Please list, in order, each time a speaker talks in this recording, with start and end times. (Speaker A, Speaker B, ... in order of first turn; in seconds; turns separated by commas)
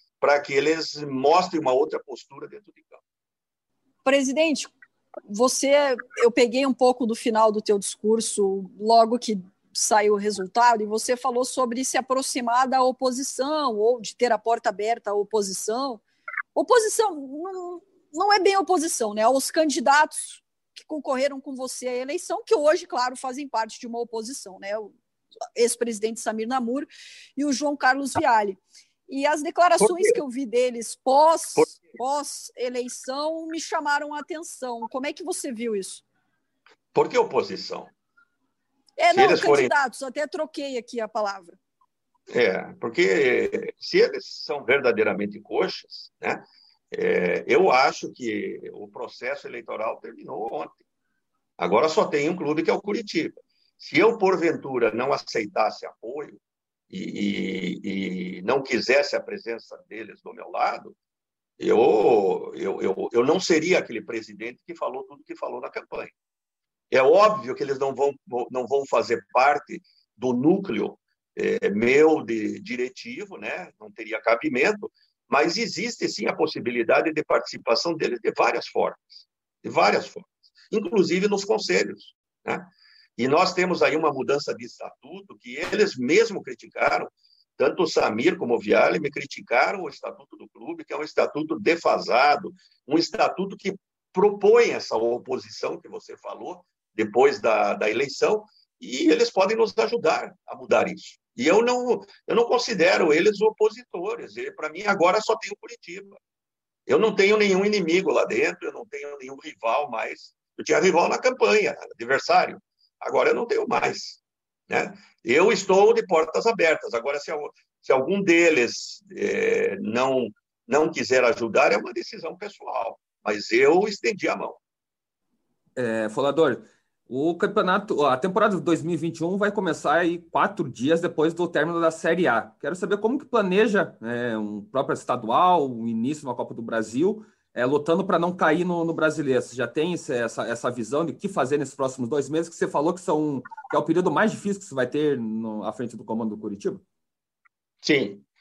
Speaker A: 0.2-3.0, Speaker B: 4.0-4.7, Speaker B: 5.3-16.0, Speaker B: 16.6-24.9, Speaker B: 25.6-36.0, Speaker A: 29.8-30.1, Speaker A: 37.0-37.9, Speaker B: 39.0-41.6, Speaker A: 39.1-39.7, Speaker A: 42.3-50.8, Speaker A: 51.6-61.0, Speaker A: 61.6-66.1, Speaker A: 66.9-106.2, Speaker A: 106.9-124.6, Speaker C: 125.8-146.8, Speaker A: 147.8-148.2